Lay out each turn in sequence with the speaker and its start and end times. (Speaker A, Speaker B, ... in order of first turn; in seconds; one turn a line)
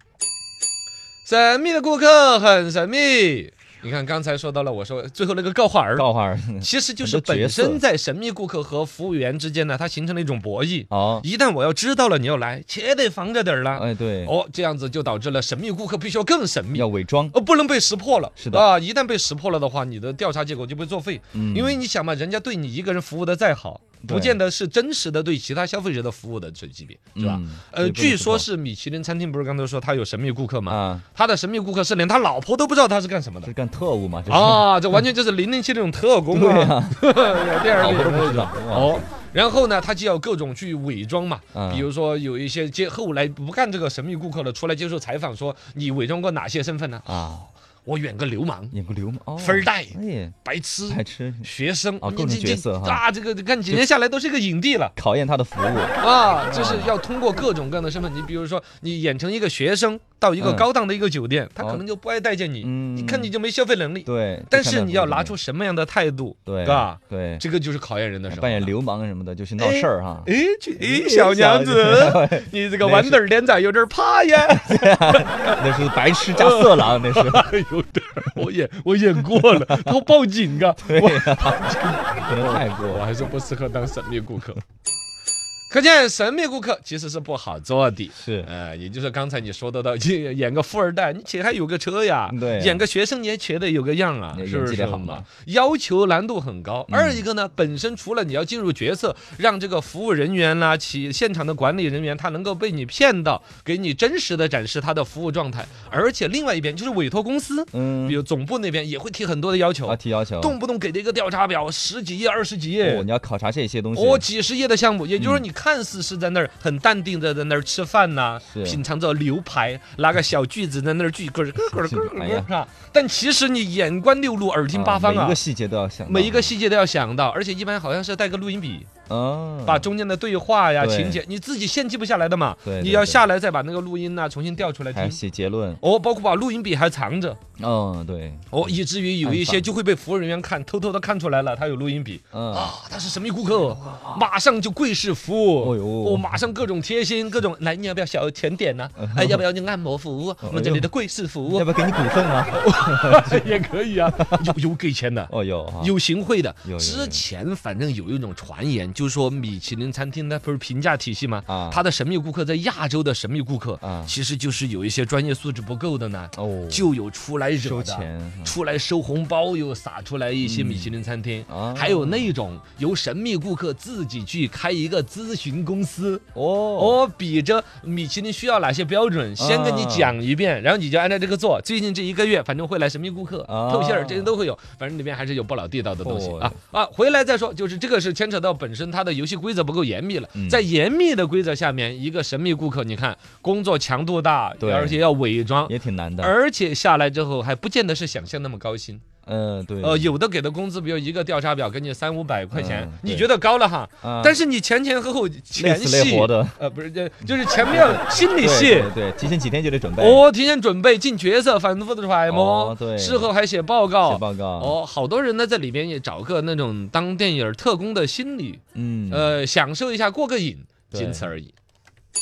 Speaker A: 1.2-6.1
Speaker B: 6.0-7.8
Speaker A: 6.6-33.5
Speaker B: 10.9-11.3
Speaker B: 13.7-14.3
Speaker B: 16.7-17.4
Speaker B: 18.4-18.7
Speaker B: 21.3-21.8
Speaker B: 24.0-24.4
Speaker B: 27.1-28.5
Speaker B: 30.7-31.1
Speaker B: 33.4-35.0
Speaker A: 34.3-47.3
Speaker B: 36.3-37.0
Speaker B: 37.8-39.0
Speaker B: 41.5-41.9
Speaker B: 47.1-47.5
Speaker A: 47.9-48.8
Speaker B: 48.7-50.4
Speaker A: 49.4-55.0
Speaker B: 50.9-53.0
Speaker B: 55.0-57.0
Speaker A: 56.0-68.7
Speaker B: 60.4-60.7
Speaker B: 61.6-61.8
Speaker B: 62.6-63.3
Speaker B: 64.1-65.3
Speaker B: 66.5-67.4
Speaker B: 68.3-73.2
Speaker A: 69.6-75.6
Speaker B: 74.5-77.5
Speaker A: 76.3-84.6
Speaker B: 79.3-79.9
Speaker B: 80.8-83.0
Speaker A: 85.7-113.1
Speaker B: 88.2-88.5
Speaker B: 92.3-92.8
Speaker B: 94.3-95.3
Speaker B: 96.9-97.2
Speaker B: 107.7-108.2
Speaker B: 109.8-110.6
Speaker B: 112.8-114.3
Speaker A: 114.0-125.4
Speaker B: 115.2-115.5
Speaker B: 118.5-118.8
Speaker B: 121.7-122.5
Speaker B: 124.7-126.5
Speaker A: 126.1-128.9
Speaker B: 129.1-129.9
Speaker A: 129.7-135.2
Speaker B: 130.8-131.2
Speaker B: 132.7-133.2
Speaker B: 134.9-135.8
Speaker A: 135.8-137.4
Speaker B: 137.6-138.7
Speaker A: 138.5-151.7
Speaker B: 139.2-139.7
Speaker B: 142.3-142.7
Speaker B: 145.6-146.3
Speaker B: 149.0-149.4
Speaker B: 150.4-150.9
Speaker B: 151.5-154.4
Speaker A: 152.5-176.2
Speaker B: 155.3-155.9
Speaker B: 156.7-157.2
Speaker B: 161.5-161.8
Speaker B: 163.8-164.1
Speaker B: 166.4-166.9
Speaker B: 167.6-168.6
Speaker B: 170.4-170.9
Speaker B: 171.5-172.3
Speaker B: 176.3-177.0
Speaker A: 176.8-199.0
Speaker B: 179.4-180.2
Speaker B: 183.5-184.3
Speaker B: 186.0-186.6
Speaker B: 190.4-190.6
Speaker B: 194.6-195.0
Speaker B: 195.7-196.3
Speaker B: 199.2-200.2
Speaker A: 199.8-208.9
Speaker B: 202.5-203.3
Speaker B: 204.0-204.4
Speaker B: 205.6-206.6
Speaker B: 207.3-210.3
Speaker A: 210.0-221.5
Speaker B: 212.3-213.3
Speaker B: 214.0-214.8
Speaker B: 218.8-219.4
Speaker B: 220.9-221.3